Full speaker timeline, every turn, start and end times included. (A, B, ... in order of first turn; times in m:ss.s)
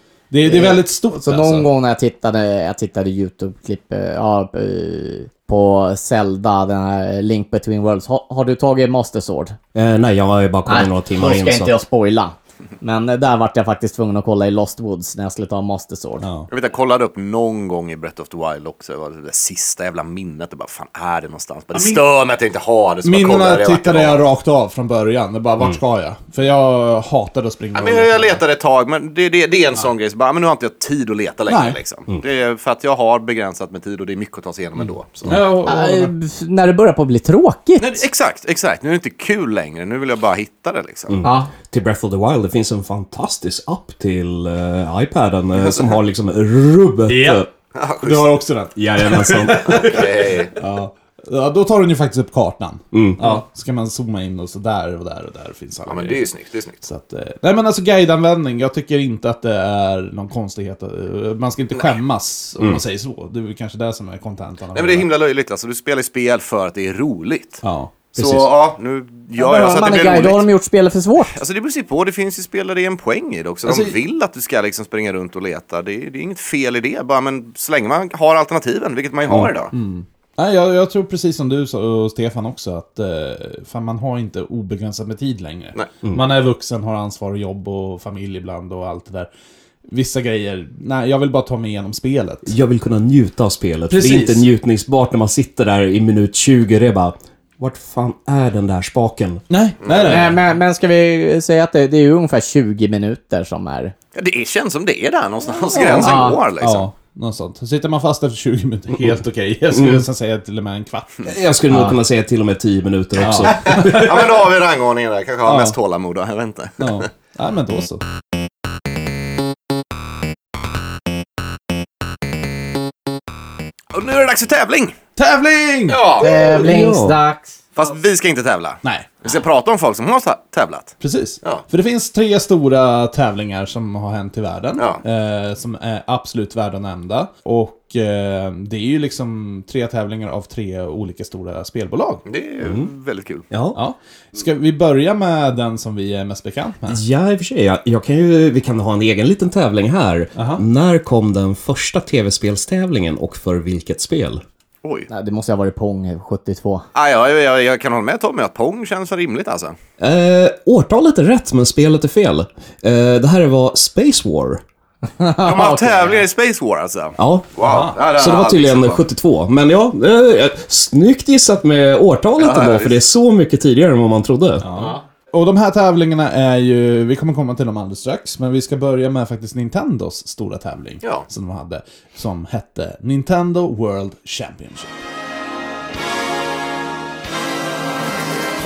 0:00.3-0:01.7 A
0:00.5-0:09.6 B
0:09.7-0:11.8 C
0:10.7-0:16.3 B
0:16.2-0:16.5 A
0:16.5-0:24.2 D
0:21.7-0:22.0 A
0:23.0-0:28.4 A
0:27.8-0:35.4 D
0:31.5-0:31.8 A
0:35.2-0:36.1 A
0:35.6-0:38.0 B
0:37.8-0:41.2 D
0:41.1-0:47.5 C
0:41.2-0:41.5 B
0:47.1-0:47.4 A
0:47.8-0:48.4 D
0:48.0-0:56.3 A
0:48.8-0:50.0 C
0:49.7-0:50.6 D
0:52.9-0:53.2 C
0:55.9-0:56.8 D
0:56.8-1:05.1 A
1:04.8-1:07.6 D
1:07.6-1:07.9 A
1:08.1-1:10.5 D
1:08.2-1:08.5 C
1:09.4-1:11.4 B
1:11.3-1:19.7 D
1:13.7-1:14.0 A
1:19.7-1:29.3 A
1:29.9-1:32.5 A
1:32.5-1:39.4 C
1:33.9-1:34.5 A
1:39.5-1:40.4 A
1:39.8-1:40.3 D
1:40.1-1:43.9 B
1:44.2-1:46.9 D
1:45.7-1:51.2 A
1:46.0-1:46.4 B
1:49.7-1:50.0 C
1:51.2-1:54.2 C
1:53.2-1:54.3 A
1:53.3-1:57.0 D
1:55.4-1:55.8 A
1:56.8-1:58.0 A
2:03.9-2:05.0 D
2:05.2-2:06.1 A
2:05.9-2:06.6 D
2:06.2-2:07.5 B
2:06.4-2:07.2 C
2:07.8-2:11.6 D
2:08.8-2:09.1 A
2:11.0-2:22.2 A
2:14.8-2:15.0 D
2:22.3-2:23.5 D
2:22.6-2:22.9 C
2:23.5-2:23.8 C
2:23.7-2:27.0 A
2:26.9-2:34.4 C
2:30.4-2:30.6 A
2:34.8-2:35.1 D
2:35.1-2:36.8 B
2:37.0-2:39.8 D
2:40.0-2:44.6 C
2:45.2-2:46.2 B
2:45.4-2:49.0 D
2:47.2-2:54.6 C
2:47.6-2:48.0 A
2:52.4-2:53.0 D
2:54.6-3:04.9 A